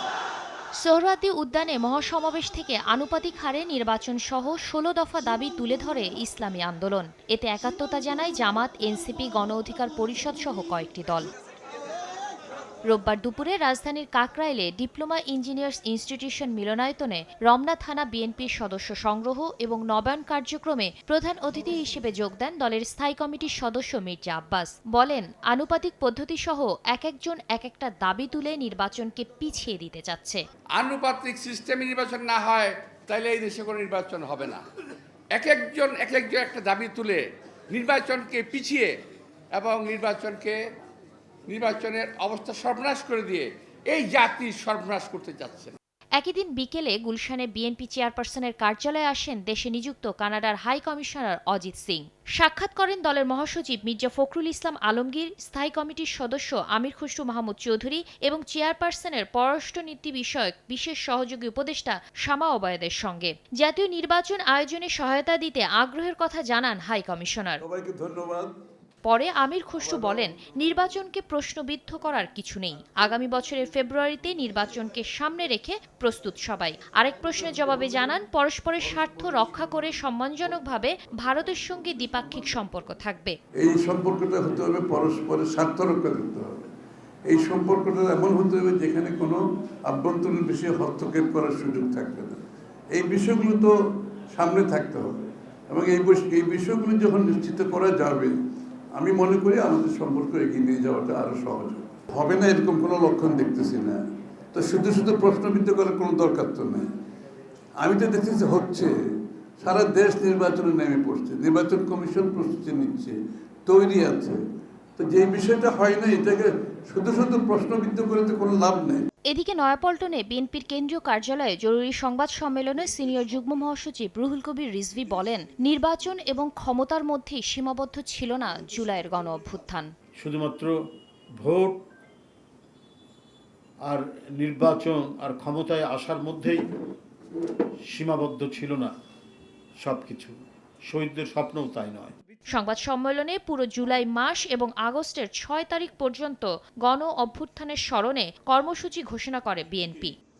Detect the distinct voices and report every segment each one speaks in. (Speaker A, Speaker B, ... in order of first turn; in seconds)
Speaker A: 0.7-11.3, 12.9-30.4, 46.1-67.6, 69.0-83.3, 119.3-129.9, 142.5-150.1
Speaker B: 30.8-34.6, 35.3-38.9, 39.5-40.5, 41.5-45.7
Speaker C: 67.6-68.5, 69.8-70.4, 83.6-86.6, 87.3-92.4, 92.9-93.7, 94.3-98.3, 99.0-104.0, 104.5-106.9, 107.8-108.9, 109.6-114.4, 115.0-119.0
Speaker D: 130.2-130.7, 131.4-131.8, 133.8-136.6, 137.9-138.9, 139.8-142.2